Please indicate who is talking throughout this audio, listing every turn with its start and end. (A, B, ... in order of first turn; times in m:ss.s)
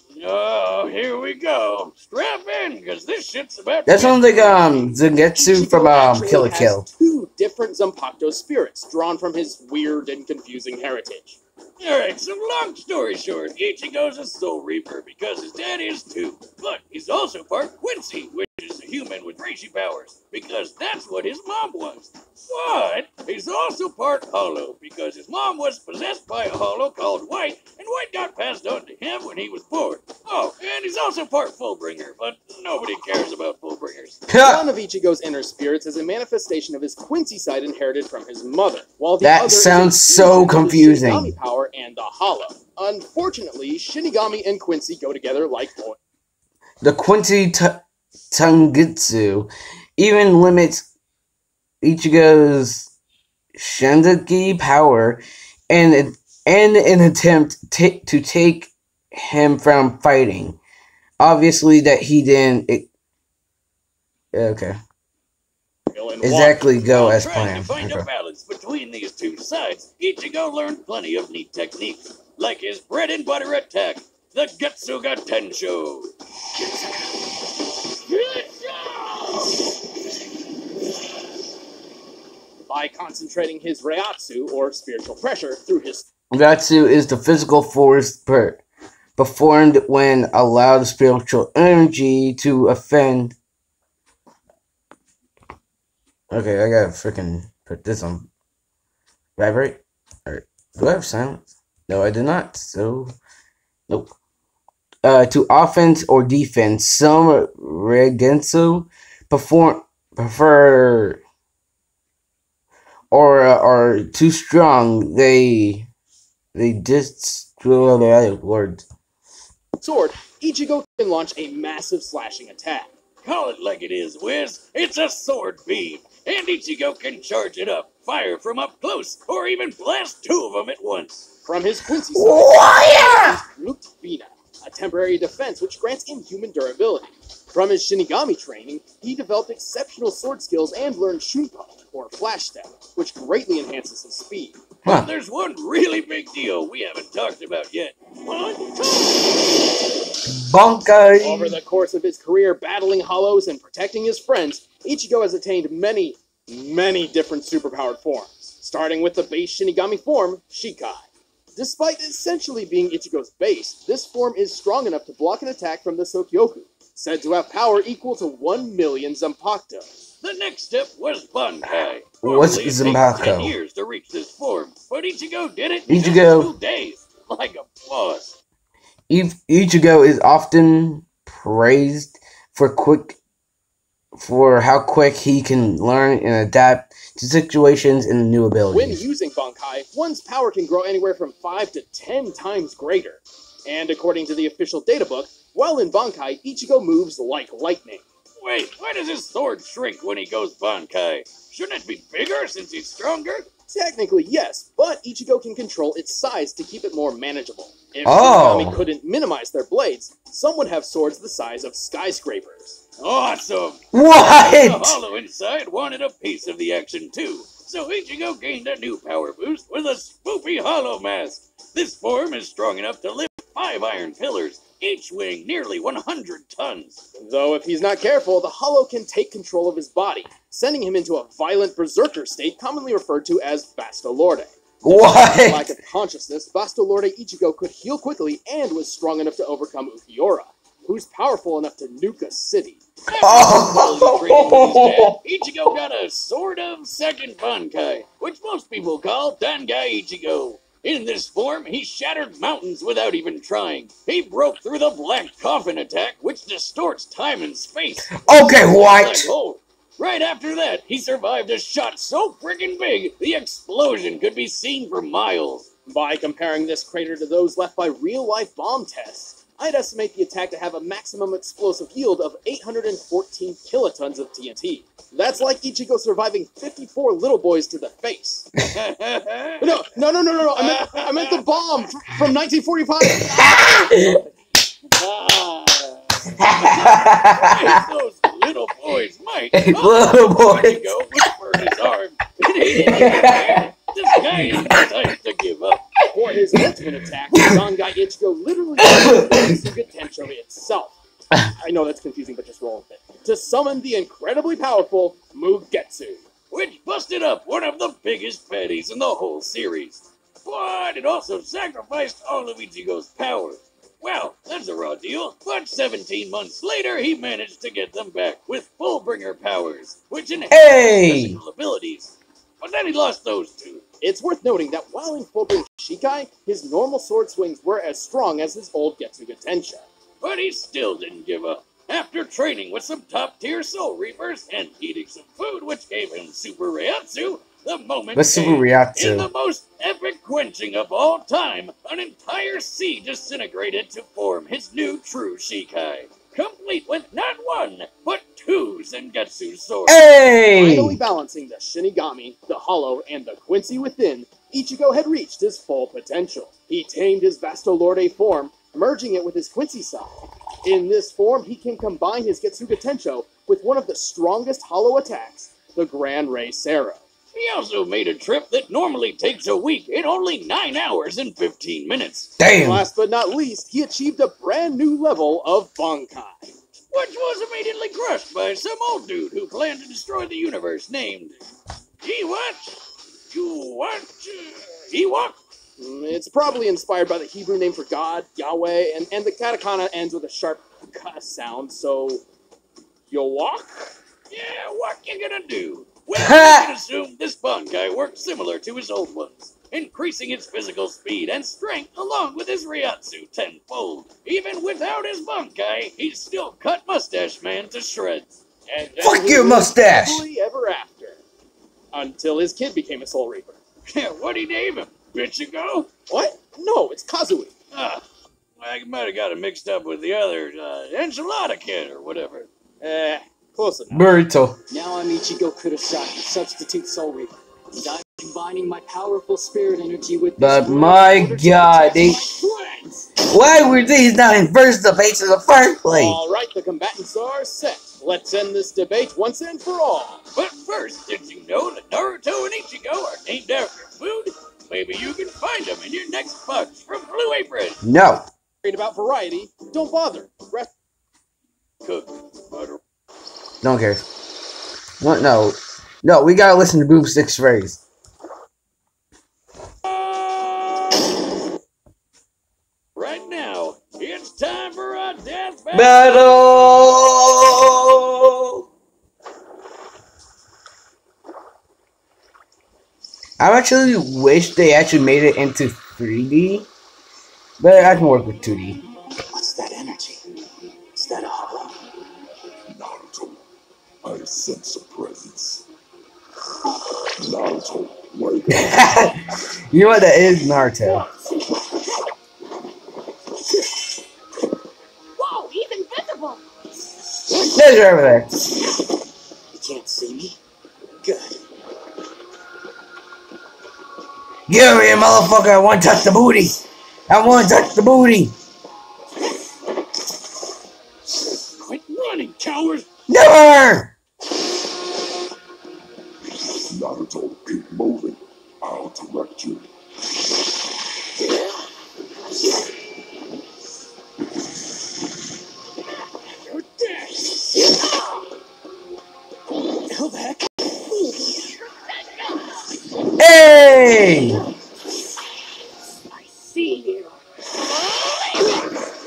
0:00.1-0:05.0 A
0:03.9-0:06.9 B
0:05.4-0:11.4 C
0:11.8-0:34.2 A
0:34.3-0:34.6 B
0:34.4-0:46.0 C
0:39.2-0:41.3 B
0:46.8-0:50.9 B
0:51.8-0:52.9 B
0:53.6-1:00.6 B
1:01.2-1:02.9 B
1:04.3-1:04.8 B
1:05.9-1:06.7 C
1:06.2-1:08.1 B
1:06.9-1:17.2 A
1:17.9-1:19.6 A
1:22.7-1:26.1 C
1:26.3-1:28.6 B
1:29.2-1:33.4 B
1:36.3-1:38.3 B
1:39.4-1:43.1 B
1:43.9-1:44.1 B
1:45.0-1:51.2 B
1:53.1-1:55.9 B
1:56.5-1:58.8 B
1:59.8-2:02.9 C
2:03.2-2:11.3 A
2:11.4-2:24.6 C
2:12.1-2:13.4 B
2:24.8-2:29.7 A
2:30.3-2:31.6 B
2:31.2-2:50.0 C
2:50.2-2:58.4 A
2:52.2-2:53.6 B
2:55.9-2:56.5 B
2:59.1-3:03.2 B
3:04.2-3:09.0 B
3:08.7-3:18.0 C
3:18.4-3:23.5 A
3:23.7-3:32.8 C
3:28.0-3:28.8 B
3:33.0-3:47.0 A
3:33.9-3:35.0 B
3:47.2-4:02.8 C
3:54.8-3:55.7 B
4:03.1-4:25.7 A
4:03.2-4:05.2 B
4:18.2-4:19.3 B
4:25.9-4:38.5 C
4:38.7-4:39.8 A
4:39.6-4:44.2 C
4:40.6-4:41.4 A
4:43.1-4:44.1 B
4:44.9-4:55.9 A
4:46.4-4:47.8 B
4:49.5-4:50.9 B
4:52.6-4:54.9 B
4:56.1-5:06.2 C
4:57.3-4:57.6 B
4:58.8-4:59.5 B
5:06.5-5:23.8 A
5:20.5-5:21.4 B
5:24.0-5:29.9 C
5:30.2-5:50.0 A
5:38.1-5:39.3 B
5:49.9-5:51.0 B
5:50.6-6:07.0 C
6:07.3-6:12.3 A
6:12.4-6:12.8 B
6:12.6-6:16.5 C
6:16.9-6:21.4 A
6:22.0-6:22.8 A
6:23.3-6:25.4 A
6:25.8-6:32.2 C
6:33.1-6:33.8 C
6:34.3-6:48.3 A
6:36.2-6:36.7 B
6:48.7-6:51.2 C
6:49.0-6:50.2 B
6:51.9-6:53.6 C
6:53.9-6:55.9 A
6:56.1-6:57.5 C
6:57.7-6:58.0 A
6:58.6-7:02.5 A
7:02.8-7:04.1 C
7:03.9-7:04.6 B
7:04.7-7:12.7 D
7:10.4-7:12.3 B
7:10.9-7:12.1 C
7:13.2-7:16.2 B
7:15.9-7:20.2 C
7:20.4-7:27.8 A
7:27.8-7:28.2 B
7:28.6-7:30.7 C
7:31.8-7:32.8 A
7:33.6-7:34.0 B
7:35.0-7:37.8 B
7:39.8-7:41.0 A
7:42.9-7:46.1 A
7:45.7-7:48.6 B
7:53.4-7:56.7 B
7:57.6-7:58.8 B
7:59.3-8:00.2 D
8:00.9-8:01.8 D
8:02.7-8:03.4 E
8:04.0-8:05.6 E
8:07.2-8:09.1 E
8:08.5-8:11.0 B
8:15.2-8:16.4 F
8:17.4-8:18.3 B
8:19.5-8:20.4 D
8:21.0-8:21.4 D
8:24.5-8:28.3 B
8:31.6-8:32.9 A
8:33.1-8:33.9 B
8:36.7-8:39.6 E
8:49.9-8:50.4 D
8:53.1-8:54.4 B
8:56.1-8:57.1 F
8:57.8-8:58.7 F